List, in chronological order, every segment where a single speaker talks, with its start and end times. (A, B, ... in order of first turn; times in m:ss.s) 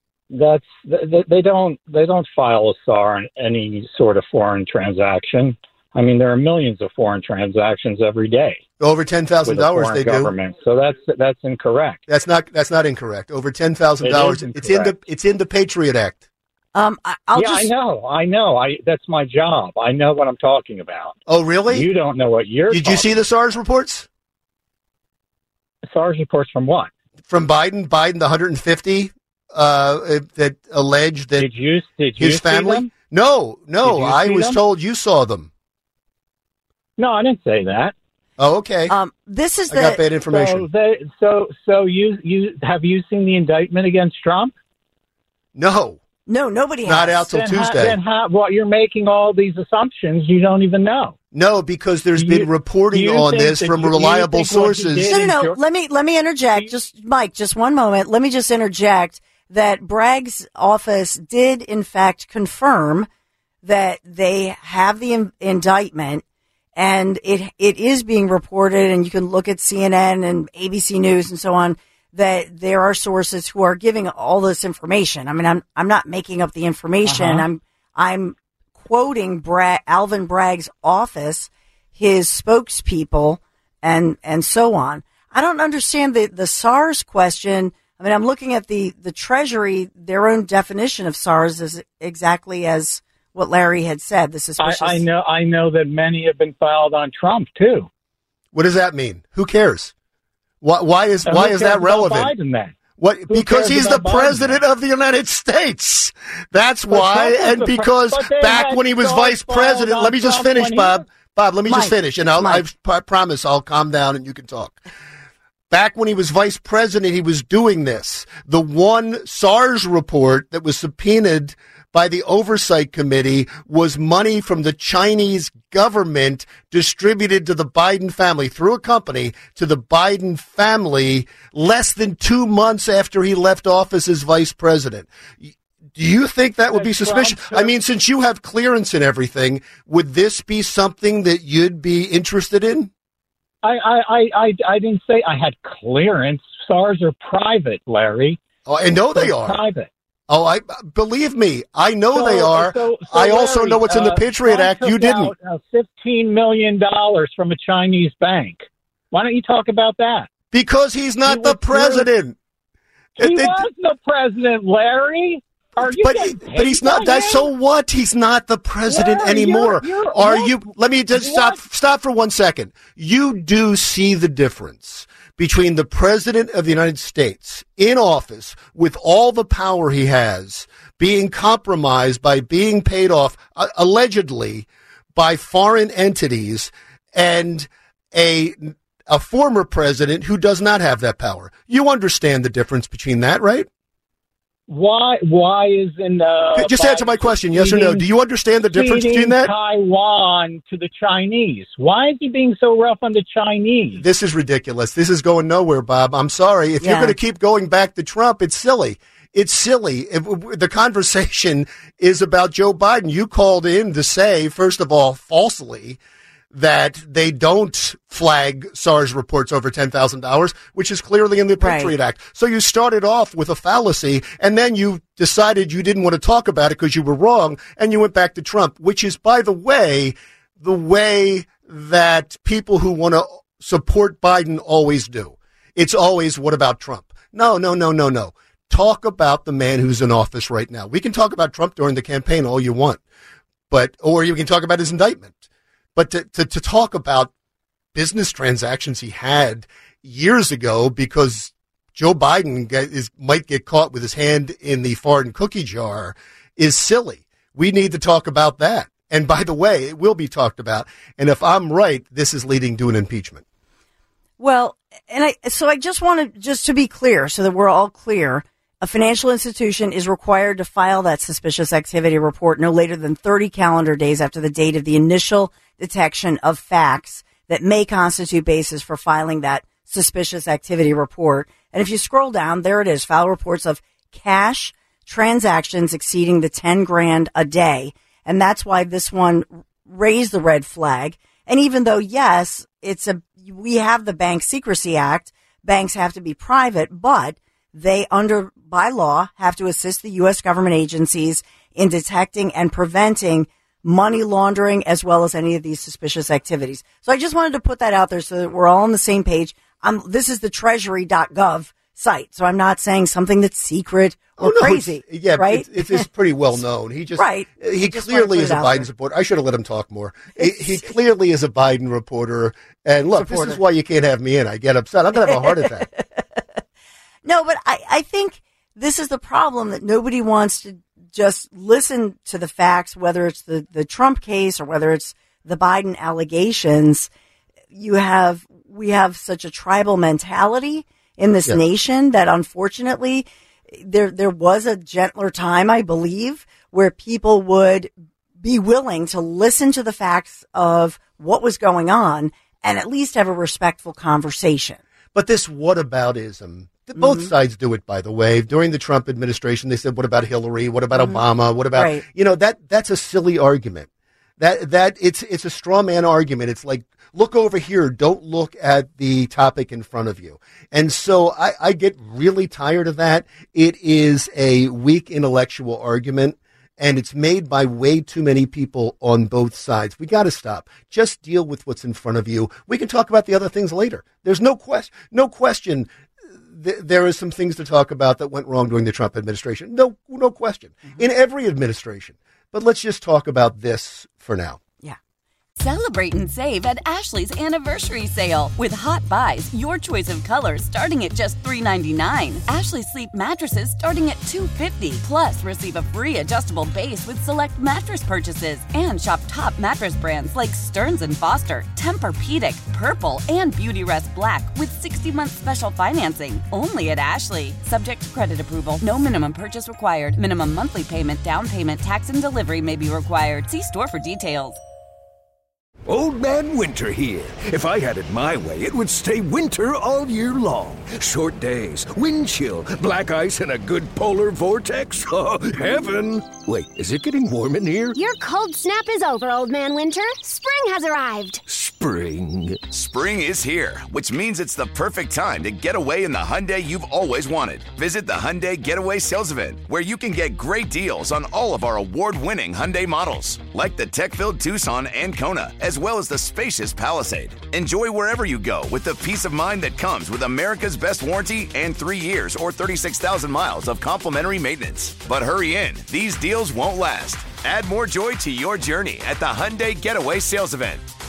0:00.3-0:08.6 A
0:08.8-0:10.3 B
0:09.4-0:12.0 A
0:12.1-0:16.2 B
0:14.0-0:15.0 A
0:16.8-0:17.7 C
0:17.3-0:23.1 A
0:21.3-0:21.9 B
0:22.7-0:24.1 B
0:25.9-0:26.9 A
0:27.3-0:31.5 B
0:31.4-0:32.9 A
0:32.2-0:35.5 B
0:33.8-0:34.6 A
0:37.0-0:37.9 A
0:38.4-0:38.9 B
0:38.9-0:40.0 C
0:39.7-0:40.7 B
0:40.3-0:44.5 A
0:45.6-0:46.0 B
0:46.3-0:47.3 C
0:46.8-0:48.0 B
0:47.3-0:51.2 A
0:51.3-0:55.2 B
0:52.2-0:55.6 A
0:55.1-1:03.1 C
1:03.6-1:06.2 C
1:06.8-1:35.0 C
1:17.0-1:17.5 A
1:34.6-1:37.9 A
1:38.5-1:39.9 B
1:40.6-1:42.3 B
1:41.3-1:42.8 A
1:43.0-1:54.8 B
1:43.3-1:44.6 A
1:46.9-1:51.0 A
1:51.7-1:52.6 C
1:55.7-2:22.9 B
2:16.7-2:17.8 A
2:23.6-2:28.4 A
2:28.7-2:29.6 B
2:29.1-2:29.9 A
2:30.3-2:35.3 B
2:32.1-2:40.3 A
2:40.5-2:42.4 B
2:41.2-2:42.1 A
2:43.2-2:47.5 A
2:43.2-2:43.7 B
2:45.8-3:13.7 B
2:48.9-2:51.6 A
3:14.7-3:18.1 A
3:16.5-3:19.5 B
3:18.7-3:24.0 A
3:24.0-3:36.0 B
3:26.8-3:27.2 C
3:36.5-4:03.0 B
3:41.6-3:41.9 C
4:03.7-4:05.4 B
4:06.0-4:07.3 B
4:07.9-4:23.4 B
4:24.4-5:16.1 C
5:14.4-5:25.9 B
5:17.2-5:18.9 C
5:20.4-5:20.9 C
5:23.1-5:23.6 C
5:25.3-5:26.4 C
5:27.2-5:37.1 C
5:37.7-5:54.8 C
5:55.1-6:03.9 B
5:57.0-5:57.3 C
6:00.9-6:02.0 C
6:04.4-6:25.9 B
6:26.4-6:34.6 B
6:35.6-7:04.6 D
7:05.9-7:18.0 E
7:18.0-7:21.4 F
7:21.5-7:22.7 E
7:22.7-7:50.8 G